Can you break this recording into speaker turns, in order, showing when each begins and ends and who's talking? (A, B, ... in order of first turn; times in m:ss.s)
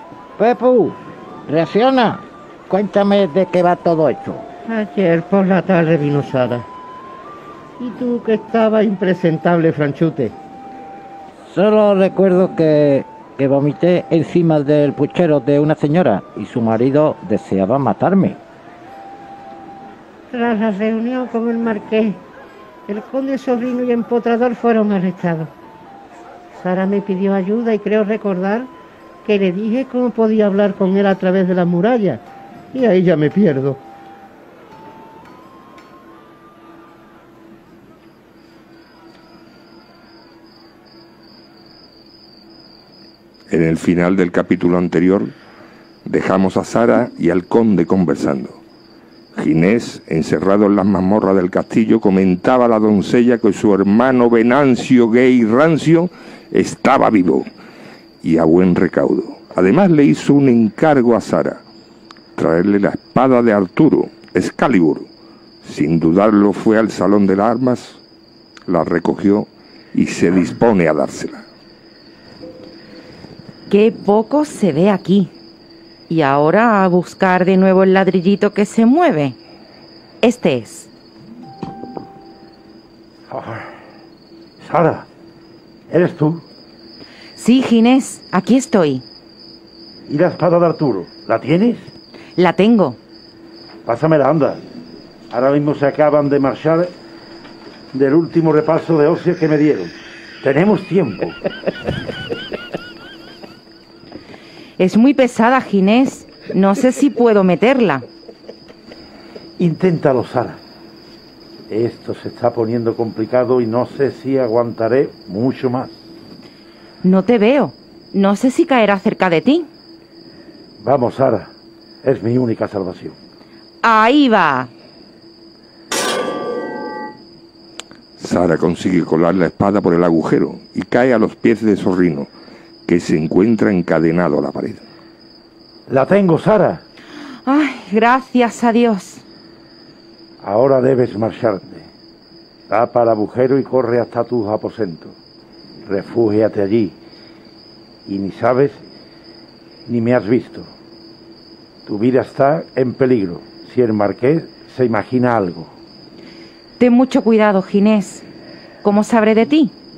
0:00.4-0:04.4 A
0:04.7-0:06.6 B
0:07.8-0:10.3 B
0:11.5-0:18.4 A
0:20.3-0:22.2 B
0:22.9-0:25.5 B
0:26.5-0:28.7 B
0:29.2-0:32.2 B
0:32.7-0:33.8 B
0:43.5-0:45.3 C
0:46.0-0:48.6 C
0:49.4-0:57.5 C
0:58.2-1:01.6 C
1:02.4-1:05.1 C
1:05.6-1:08.0 C
1:08.7-1:11.4 C
1:13.7-1:15.3 D
1:16.1-1:19.4 D
1:20.2-1:20.9 D
1:23.3-1:23.7 E
1:24.6-1:25.1 E
1:25.9-1:26.4 E
1:27.4-1:29.0 D
1:30.1-1:31.9 E
1:32.4-1:33.0 D
1:33.8-1:34.6 E
1:35.3-1:36.9 E
1:37.9-1:41.4 E
1:44.8-1:48.0 D
1:49.6-1:50.6 E
1:51.7-1:56.0 E
1:57.0-1:59.7 D
2:00.8-2:01.5 E
2:02.0-2:03.2 E
2:03.8-2:04.7 D
2:08.2-2:12.3 C
2:12.8-2:14.8 C
2:15.9-2:16.8 E
2:17.4-2:19.2 D
2:20.4-2:21.9 E
2:22.7-2:25.1 E
2:25.8-2:26.9 E
2:28.0-2:28.8 E
2:29.9-2:30.7 E
2:31.8-2:35.7 E
2:36.8-2:38.2 D
2:38.8-2:39.7 D